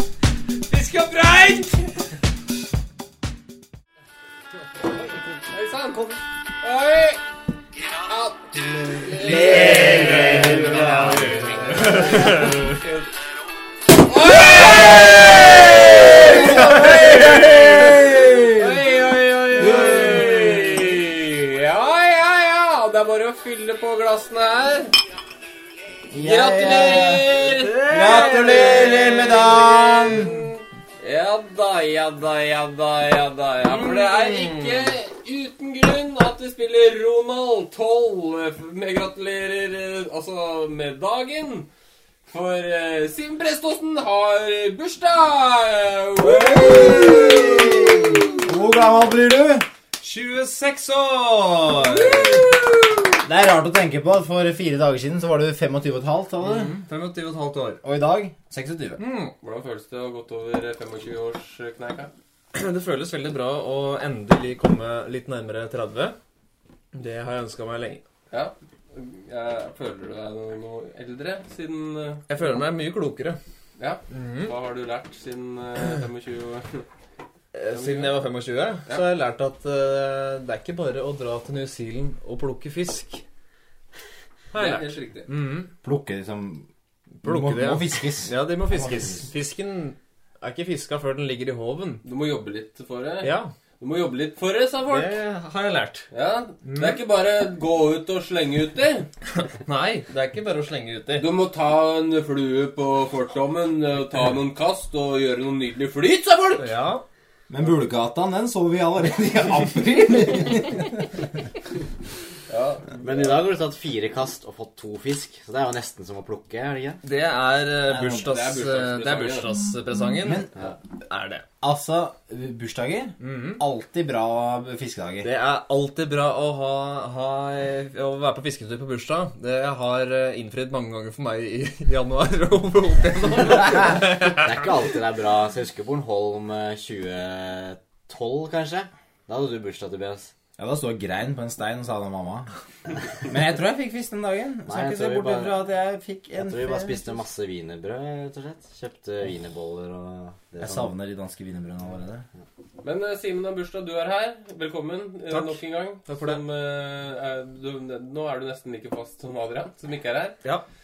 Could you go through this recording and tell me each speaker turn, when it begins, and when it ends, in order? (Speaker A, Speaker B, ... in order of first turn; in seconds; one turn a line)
Speaker A: 0.7-2.1
Speaker A: 4.8-7.2
Speaker A: 7.9-13.1
Speaker B: 9.1-11.9
Speaker C: 9.3-12.8
Speaker A: 14.0-24.9
Speaker C: 15.2-17.6
Speaker B: 16.1-18.8
Speaker B: 19.6-20.6
Speaker C: 19.6-20.6
Speaker B: 26.1-30.4
Speaker A: 26.1-41.7
Speaker C: 27.7-29.1
Speaker C: 33.8-34.7
Speaker A: 42.3-48.0
Speaker B: 46.4-49.6
Speaker C: 46.6-47.4
Speaker C: 50.0-52.4
Speaker A: 51.9-52.5
Speaker B: 53.2-56.7
Speaker C: 56.4-57.8
Speaker B: 57.8-59.0
Speaker C: 59.0-59.3
Speaker A: 59.4-62.1
Speaker C: 62.5-66.2
Speaker C: 66.9-68.0
Speaker A: 68.3-72.3
Speaker C: 72.3-73.4
Speaker A: 73.8-76.8
Speaker C: 74.1-74.5
Speaker C: 77.5-83.2
Speaker A: 77.7-78.1
Speaker C: 84.5-85.7
Speaker A: 84.5-85.3
Speaker B: 85.8-86.7
Speaker C: 87.2-92.0
Speaker B: 87.2-89.2
Speaker A: 92.0-95.2
Speaker C: 93.2-93.5
Speaker C: 94.9-96.1
Speaker A: 96.1-99.1
Speaker C: 96.6-97.0
Speaker C: 99.5-101.2
Speaker A: 101.2-106.7
Speaker C: 106.6-107.0
Speaker B: 107.5-111.4
Speaker A: 112.5-113.3
Speaker D: 113.0-117.0
Speaker C: 117.0-120.5
Speaker B: 117.9-118.3
Speaker A: 118.2-119.5
Speaker B: 120.2-120.5
Speaker C: 121.0-121.4
Speaker B: 121.6-125.3
Speaker C: 123.2-123.6
Speaker C: 125.2-134.7
Speaker D: 134.2-140.3
Speaker B: 140.6-142.5
Speaker B: 143.2-147.2
Speaker D: 144.7-145.5
Speaker D: 146.4-150.9
Speaker B: 150.6-152.2
Speaker A: 152.8-160.4
Speaker C: 155.3-156.4